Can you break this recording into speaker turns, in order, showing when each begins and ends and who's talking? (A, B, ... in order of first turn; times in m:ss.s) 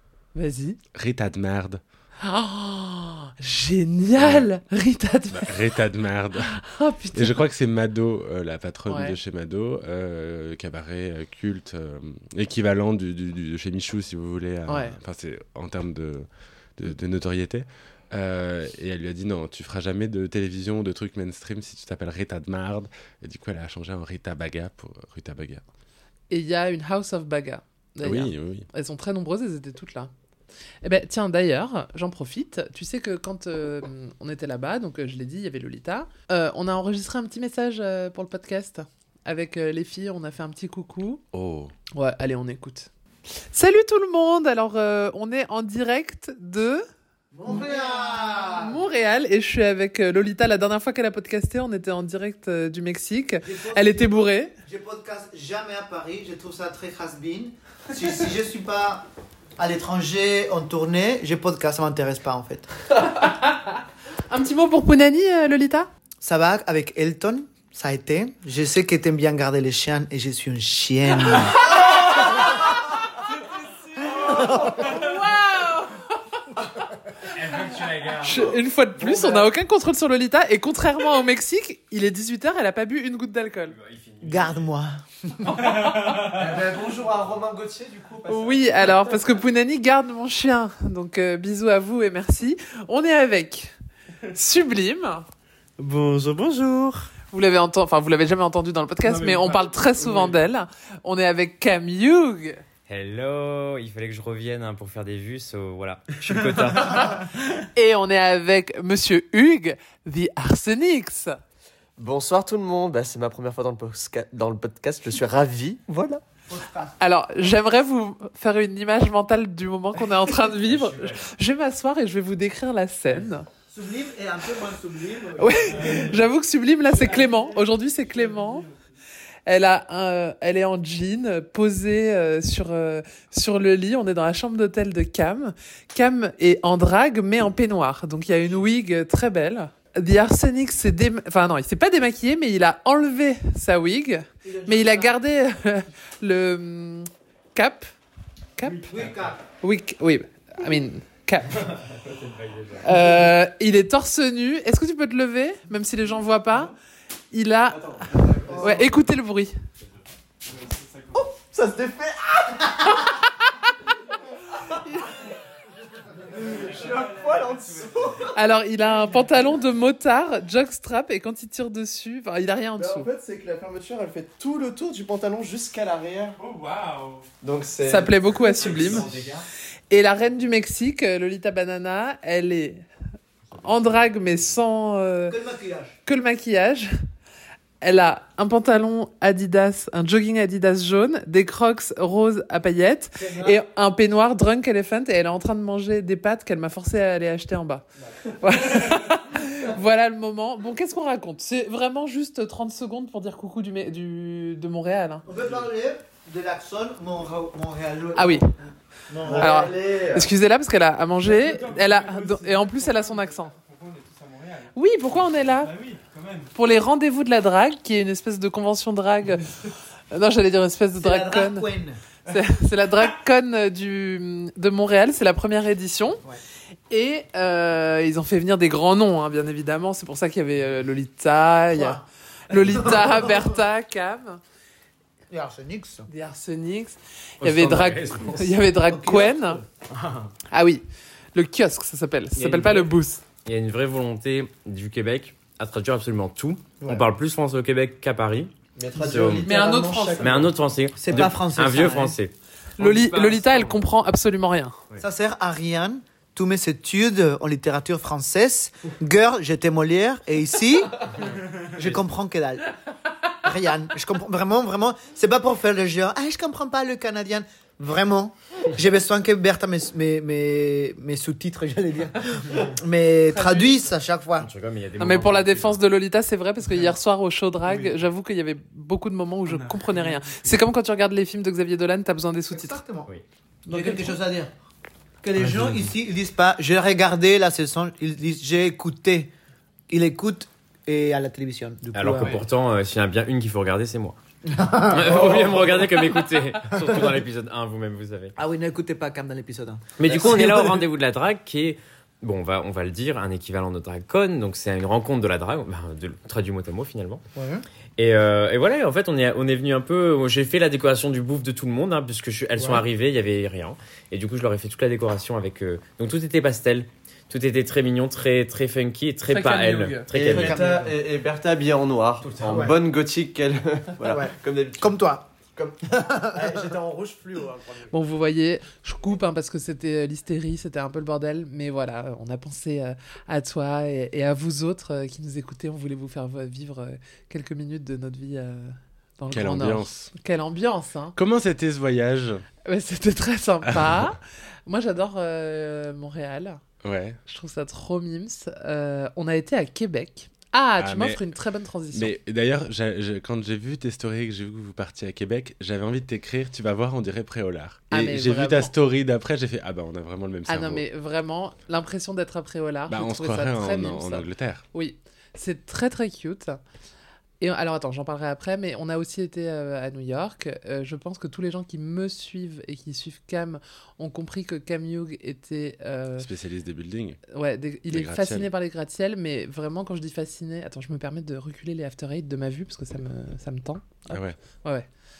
0:00.3-0:00.8 A
0:00.9-0:01.8 B
0:02.2-0:05.6 A
0:04.2-0:04.5 B
0:05.3-0:06.6 B
0:06.4-0:07.4 A
0:07.1-0:25.6 B
0:08.9-0:09.2 A
0:14.7-0:15.0 A
0:26.3-0:30.1 A
0:28.0-0:28.6 B
0:30.8-0:41.2 A
0:41.3-0:41.7 B
0:41.9-0:42.9 A
0:43.5-0:46.8 A
0:47.3-0:48.8 C
0:47.5-0:54.5 A
0:53.4-1:02.7 C
1:03.0-1:05.9 A
1:06.2-1:11.8 C
1:14.2-1:14.9 C
1:14.8-1:16.0 A
1:17.3-1:18.3 D
1:17.9-1:19.5 E
1:18.2-1:23.7 A
1:23.7-1:24.8 D
1:24.2-1:25.6 C
1:25.9-1:26.2 F
1:26.0-1:29.2 E
1:28.3-1:33.7 A
1:34.3-1:35.2 A
1:35.8-1:37.1 E
1:37.3-1:42.6 A
1:39.1-1:40.3 F
1:42.9-1:47.2 D
1:47.7-1:51.4 A
1:52.0-1:56.2 E
1:56.5-1:56.9 C
1:57.0-2:03.5 A
2:00.7-2:01.2 E
2:03.7-2:05.7 C
2:05.4-2:08.7 A
2:05.7-2:06.2 F
2:06.9-2:08.8 F
2:09.4-2:27.9 A
2:24.4-2:25.2 C
2:28.6-2:28.9 A
2:28.9-2:29.4 C
2:29.6-2:31.6 A
2:32.4-2:32.7 D
2:32.8-2:36.7 A
2:37.3-2:38.0 A
2:37.7-2:38.9 E
2:38.5-2:38.8 C
2:38.6-2:39.5 A
2:40.5-2:41.3 F
2:41.2-2:42.6 E
2:46.3-2:48.3 E
2:46.4-2:47.9 F
2:48.3-2:53.1 A
2:52.8-2:56.4 E
2:56.4-2:57.2 F
2:57.4-2:59.4 E
2:57.8-2:59.1 A
2:59.9-3:02.8 A
3:03.6-3:05.4 A
3:05.3-3:06.0 C
3:06.0-3:06.9 A
3:07.8-3:17.8 A
3:13.2-3:13.5 C
3:18.4-3:25.3 A
3:25.2-3:30.0 C
3:28.2-3:28.5 A
3:29.2-3:30.3 E
3:29.3-3:33.5 A
3:31.2-3:34.7 F
3:34.7-3:35.7 A
3:35.2-3:36.5 F
3:36.5-3:39.5 A
3:40.1-3:41.7 A
3:41.0-3:42.0 C
3:42.3-3:46.2 A
3:46.9-3:54.4 A
3:51.7-3:52.0 C
3:52.6-3:53.4 C
3:55.3-3:56.1 C
3:56.1-3:59.6 A
3:57.4-3:58.5 E
3:58.8-3:59.6 C
4:00.5-4:00.8 A
4:01.3-4:03.2 A
4:02.4-4:02.9 D
4:03.4-4:09.5 D
4:08.8-4:10.5 E
4:08.9-4:10.4 C
4:09.4-4:10.3 A
4:10.2-4:12.3 D
4:11.0-4:12.2 C
4:12.8-4:14.8 A
4:12.9-4:13.6 D
4:15.0-4:22.7 C
4:23.4-4:34.5 C
4:33.3-4:33.8 A
4:34.4-4:35.8 D
4:35.0-4:42.8 A
4:39.5-4:40.5 F
4:42.5-4:43.1 C
4:43.7-4:44.5 C
4:45.2-4:49.3 C
4:49.9-4:52.4 C
4:51.9-4:54.2 D
4:54.5-4:55.9 C
4:54.8-4:58.3 D
4:56.7-4:57.2 C
4:58.4-5:00.8 C
5:00.0-5:07.2 D
5:07.3-5:07.6 C
5:08.0-5:20.6 D
5:19.3-5:20.1 A
5:20.1-5:25.0 E
5:20.1-5:20.9 C
5:22.4-5:22.7 D
5:22.4-5:22.7 C
5:24.0-5:25.3 C
5:25.8-5:26.7 C
5:26.3-5:27.9 E
5:27.9-5:41.2 A
5:39.3-5:40.1 B
5:41.1-5:42.4 B
5:42.6-5:46.6 A
5:43.7-5:44.1 B
5:46.8-5:47.2 B
5:47.3-5:52.1 A
5:50.8-5:51.2 B
5:51.9-6:00.8 B
5:57.9-5:58.7 A
6:00.5-6:06.6 A
6:02.9-6:04.6 B
6:07.4-6:16.3 A
6:16.2-6:17.2 B
6:17.3-6:24.9 A
6:17.9-6:18.5 B
6:24.1-6:24.4 B